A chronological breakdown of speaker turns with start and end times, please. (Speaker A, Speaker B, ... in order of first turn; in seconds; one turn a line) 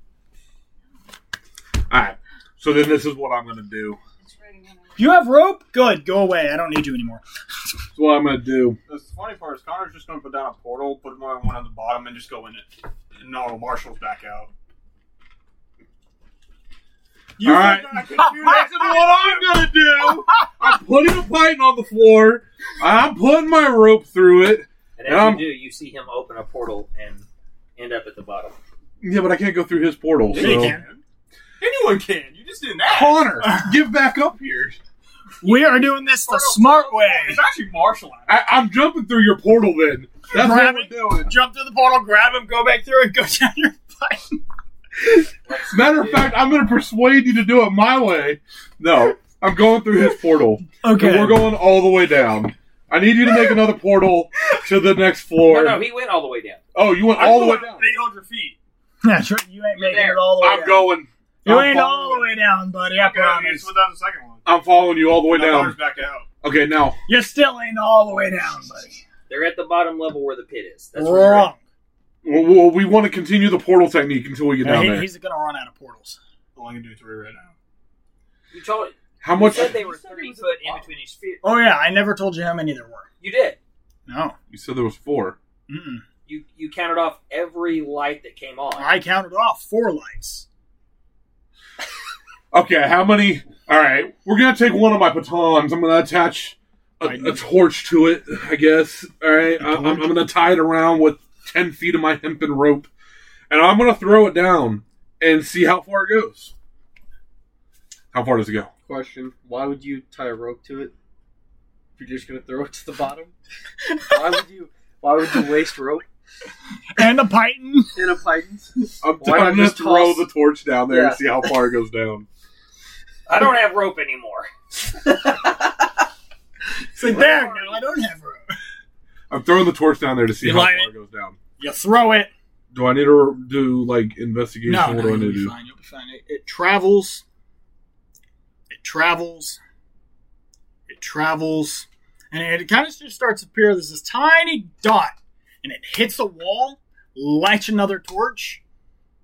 Speaker A: 1.9-4.0
Speaker B: 5.0-7.2
Speaker A: 7.9-8.8
Speaker C: 8.9-14.5
Speaker C: 17.4-19.5
Speaker A: 17.4-25.5
Speaker D: 25.0-27.2
Speaker D: 27.8-28.6
Speaker A: 29.0-30.8
Speaker C: 30.3-31.0
Speaker B: 30.3-30.9
Speaker C: 31.6-33.4
Speaker A: 32.9-34.8
Speaker B: 33.4-33.7
Speaker B: 35.4-37.4
Speaker C: 35.4-38.3
Speaker A: 38.3-41.3
Speaker B: 40.3-44.4
Speaker A: 45.6-55.8
Speaker C: 45.9-46.2
Speaker B: 50.8-51.6
Speaker D: 55.4-56.6
Speaker A: 56.7-57.9
Speaker C: 57.1-58.5
Speaker B: 59.0-60.9
Speaker D: 59.7-60.3
Speaker A: 60.4-62.2
Speaker B: 61.4-63.7
Speaker C: 63.0-64.4
Speaker A: 64.4-65.8
Speaker C: 65.2-66.3
Speaker A: 66.4-67.0
Speaker B: 67.1-69.0
Speaker D: 69.3-71.5
Speaker B: 70.9-71.6
Speaker A: 72.2-75.1
Speaker B: 74.6-76.2
Speaker C: 76.5-77.5
Speaker D: 78.5-81.4
Speaker A: 79.2-79.8
Speaker C: 79.5-80.8
Speaker B: 81.4-83.1
Speaker D: 83.2-83.6
Speaker B: 84.1-84.3
Speaker A: 84.5-85.4
Speaker B: 85.7-86.0
Speaker D: 86.3-88.9
Speaker B: 88.8-90.5
Speaker A: 92.5-102.9
Speaker B: 97.0-97.4
Speaker B: 99.6-100.2
Speaker A: 103.5-106.5
Speaker A: 108.1-108.7
Speaker E: 108.8-110.9
Speaker E: 112.0-113.3
Speaker E: 114.1-116.0
Speaker B: 116.9-118.1
Speaker E: 117.9-120.3
Speaker A: 119.0-122.3
Speaker E: 120.9-121.5
Speaker D: 123.3-124.5
Speaker B: 127.0-128.5
Speaker D: 127.1-127.8
Speaker A: 129.3-131.4
Speaker B: 130.4-130.9
Speaker B: 131.6-132.3
Speaker A: 132.7-135.5
Speaker B: 134.6-137.2
Speaker B: 138.7-139.6
Speaker B: 140.9-148.6